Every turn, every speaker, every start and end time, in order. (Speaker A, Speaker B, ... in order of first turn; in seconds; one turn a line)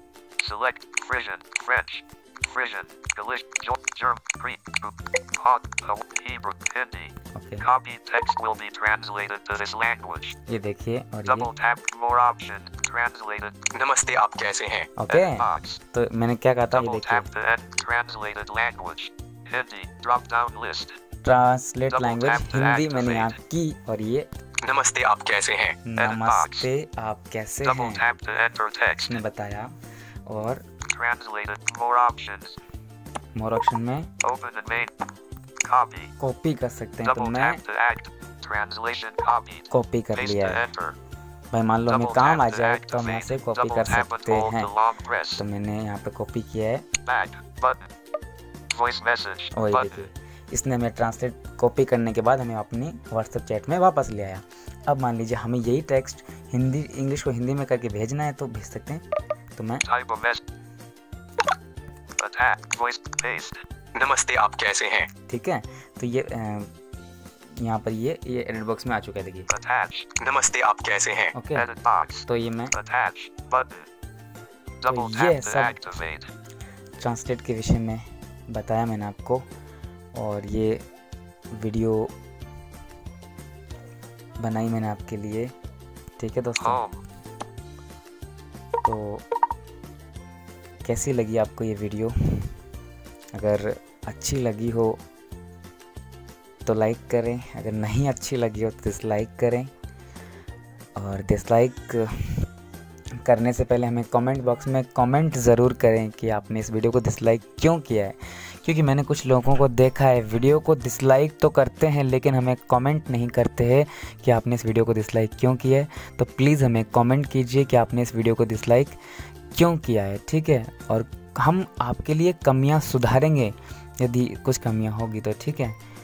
Speaker A: 0.4-10.3
Speaker B: 7.3-7.7
Speaker B: 10.4-11.5
Speaker A: 11.2-13.6
Speaker C: 13.7-14.9
Speaker B: 15.0-17.3
Speaker A: 15.1-15.8
Speaker A: 16.7-21.0
Speaker B: 21.2-24.3
Speaker A: 21.9-23.4
Speaker C: 24.6-25.8
Speaker B: 25.8-28.1
Speaker A: 26.0-26.7
Speaker A: 27.6-29.2
Speaker B: 29.0-29.7
Speaker B: 30.2-30.6
Speaker A: 30.9-32.6
Speaker B: 33.3-34.1
Speaker A: 34.2-34.9
Speaker A: 35.6-36.1
Speaker B: 36.2-37.6
Speaker A: 37.0-41.0
Speaker B: 39.7-40.7
Speaker B: 41.5-44.7
Speaker A: 41.9-45.4
Speaker B: 45.4-46.9
Speaker A: 47.0-47.9
Speaker A: 48.7-50.0
Speaker B: 49.5-59.0
Speaker B: 59.5-59.8
Speaker A: 59.8-60.4
Speaker A: 62.2-63.6
Speaker C: 63.9-65.1
Speaker B: 65.3-66.7
Speaker B: 67.5-69.5
Speaker A: 69.5-70.1
Speaker C: 70.2-71.3
Speaker B: 71.3-71.7
Speaker A: 71.5-73.9
Speaker B: 72.3-72.7
Speaker A: 74.8-76.3
Speaker B: 74.9-75.8
Speaker B: 77.0-79.5
Speaker B: 80.1-80.8
Speaker B: 81.5-82.1
Speaker B: 84.4-85.5
Speaker B: 86.2-86.8
Speaker A: 86.6-87.0
Speaker B: 88.8-89.2
Speaker B: 90.8-92.5
Speaker B: 93.3-95.0
Speaker B: 96.6-99.7
Speaker B: 101.0-102.5
Speaker B: 103.2-119.0
Speaker B: 119.5-125.8